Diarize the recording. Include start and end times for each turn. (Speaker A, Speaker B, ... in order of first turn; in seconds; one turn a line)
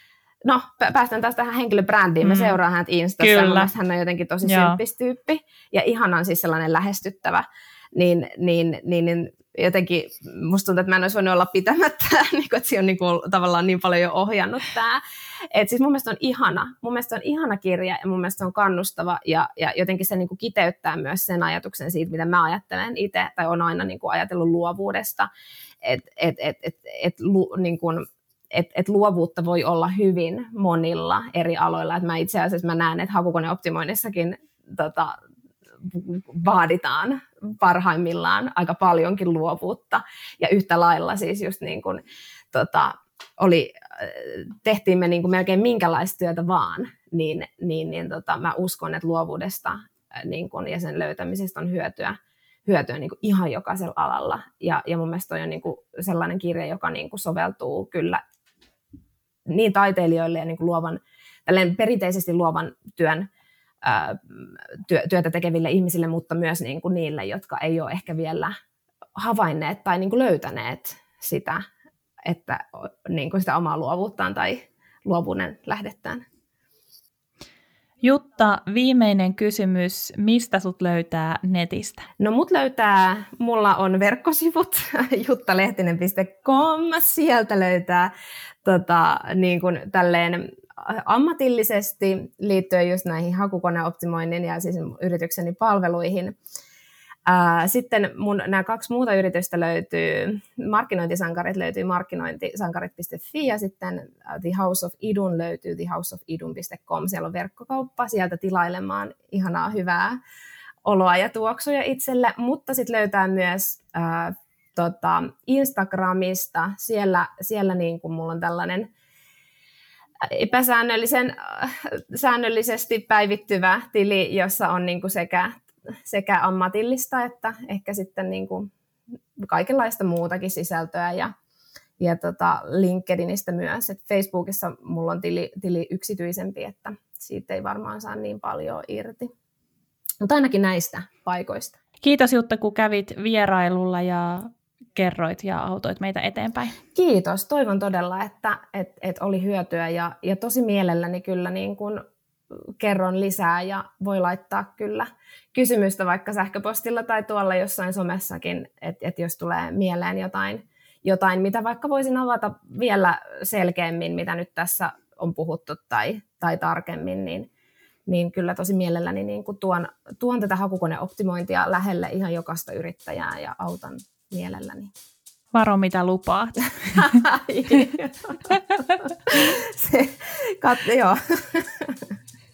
Speaker A: 0.4-25.3
Speaker B: 2.2-2.6
Speaker B: 3.2-3.7
Speaker B: 4.4-4.8
Speaker A: 25.8-35.2
Speaker A: 35.8-58.2
Speaker A: 59.5-63.3
Speaker A: 63.8-68.5
Speaker A: 69.2-71.6
Speaker A: 72.2-76.2
Speaker B: 78.0-82.0
Speaker A: 82.2-88.1
Speaker A: 88.6-96.3
Speaker A: 97.2-110.2
Speaker A: 110.8-118.9
Speaker A: 120.2-128.7
Speaker A: 129.4-131.3
Speaker A: 132.0-139.3
Speaker A: 140.2-141.8
Speaker B: 142.0-146.8
Speaker A: 146.9-152.0
Speaker A: 152.8-167.5
Speaker A: 168.1-174.9
Speaker B: 175.5-177.2
Speaker A: 176.9-182.0